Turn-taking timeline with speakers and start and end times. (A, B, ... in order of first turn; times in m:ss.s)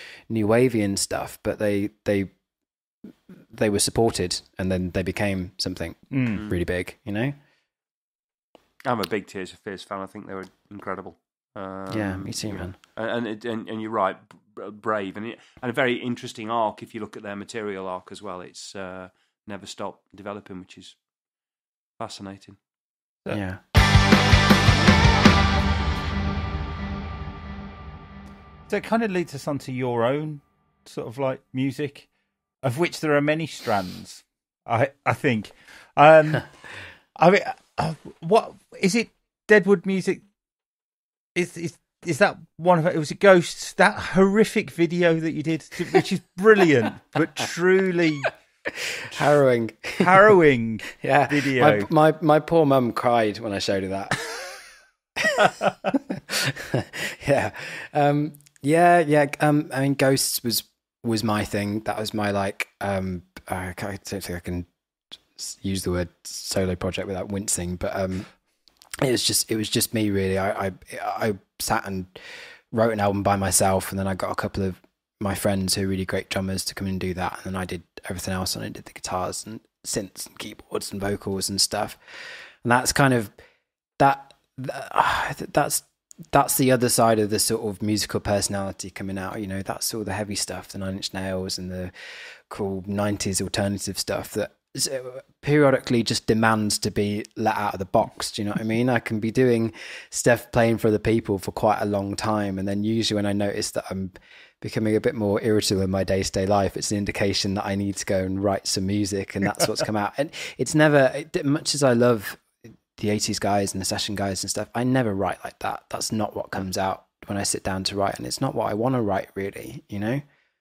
0:00.3-0:02.3 A
0:03.4-0:07.4 A
0:06.1-0:06.4 B
0:08.8-0:21.0 C
0:11.9-0:12.8 A
0:22.0-0:22.6 C
0:23.3-0:23.6 A
0:28.7-0:32.1 B
0:32.6-0:36.5 B
0:37.2-0:40.2 B
0:41.4-0:48.3 B
0:49.1-0:50.1 A
0:50.0-0:51.9 B
0:51.0-0:54.2 A
0:55.2-1:04.7 A
1:05.4-1:08.3 A
1:09.0-1:12.2 A
1:12.7-1:22.0 A
1:22.6-1:23.3 A
1:24.0-1:31.9 A
1:32.5-2:00.2 A